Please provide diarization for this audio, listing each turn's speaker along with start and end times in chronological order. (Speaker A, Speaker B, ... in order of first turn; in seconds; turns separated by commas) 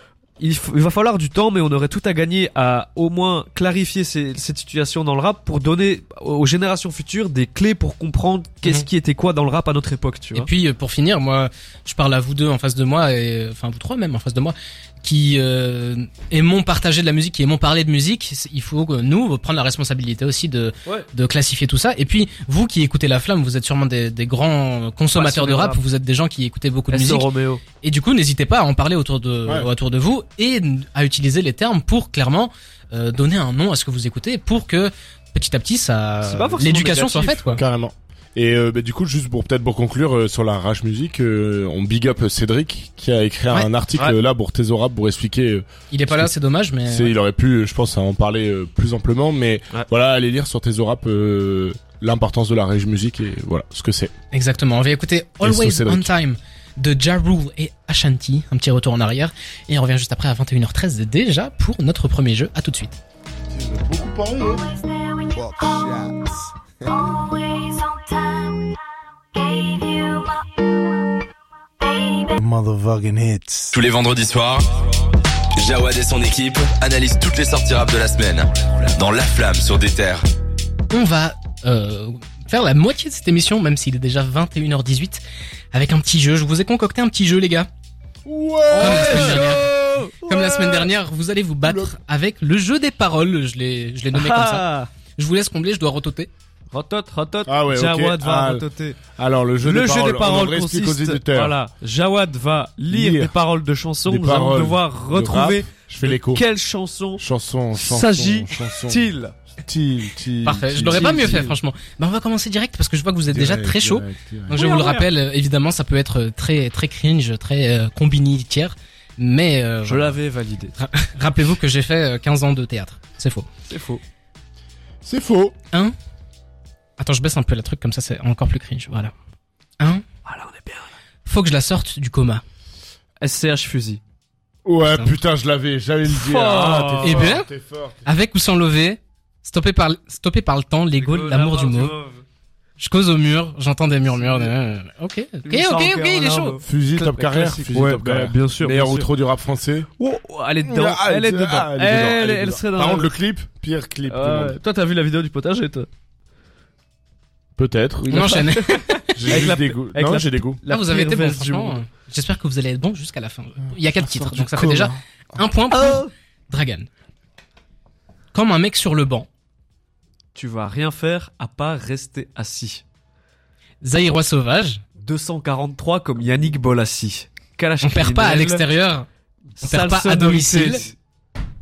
Speaker A: 0.4-10.5, Speaker B: 10.3-27.2, Speaker A: 25.1-25.8, Speaker A: 26.9-27.6, Speaker B: 27.8-37.6, Speaker A: 36.2-37.6, Speaker C: 37.5-46.3, Speaker B: 45.9-47.1, Speaker C: 46.9-54.1, Speaker B: 54.3-63.0, Speaker C: 55.4-56.1, Speaker C: 63.5-64.8, Speaker C: 65.3-66.3, Speaker D: 67.3-68.5, Speaker D: 69.3-70.4, Speaker C: 72.3-73.7, Speaker E: 73.7-74.7, Speaker E: 75.5-80.2, Speaker B: 80.9-85.2, Speaker B: 85.7-87.7, Speaker C: 88.2-89.7, Speaker A: 88.7-90.9, Speaker B: 88.8-89.7, Speaker B: 90.2-96.3, Speaker C: 91.6-91.9, Speaker A: 94.1-94.9, Speaker A: 96.7-99.0, Speaker C: 97.5-98.6, Speaker C: 99.2-101.5, Speaker A: 99.6-107.2, Speaker C: 102.9-103.3, Speaker C: 104.0-106.4, Speaker C: 107.2-109.1, Speaker A: 107.8-109.3, Speaker C: 109.6-111.5, Speaker B: 110.4-120.1, Speaker A: 110.9-111.5, Speaker C: 113.3-114.6, Speaker A: 114.5-115.1, Speaker A: 119.9-120.8, Speaker B: 120.8-123.5, Speaker A: 123.7-124.0, Speaker C: 125.0-125.5, Speaker B: 127.0-129.1, Speaker A: 130.2-130.9, Speaker B: 131.2-132.4, Speaker A: 133.2-134.0, Speaker C: 134.6-138.0, Speaker A: 136.1-137.3, Speaker B: 137.0-137.5, Speaker B: 138.0-141.9, Speaker A: 141.0-142.2, Speaker B: 142.8-146.6, Speaker A: 144.2-144.5, Speaker A: 145.5-149.1, Speaker C: 146.6-149.9, Speaker A: 150.0-153.1, Speaker C: 150.6-154.6, Speaker A: 154.1-155.9, Speaker C: 157.6-158.1, Speaker A: 158.0-161.8, Speaker B: 158.1-159.4, Speaker C: 159.1-160.6, Speaker B: 160.7-166.9, Speaker C: 163.7-165.0, Speaker A: 165.7-166.1, Speaker B: 168.3-169.3, Speaker A: 170.3-172.8, Speaker B: 173.8-174.8, Speaker A: 175.0-178.6, Speaker B: 177.8-179.1, Speaker A: 179.6-180.9, Speaker B: 179.6-180.8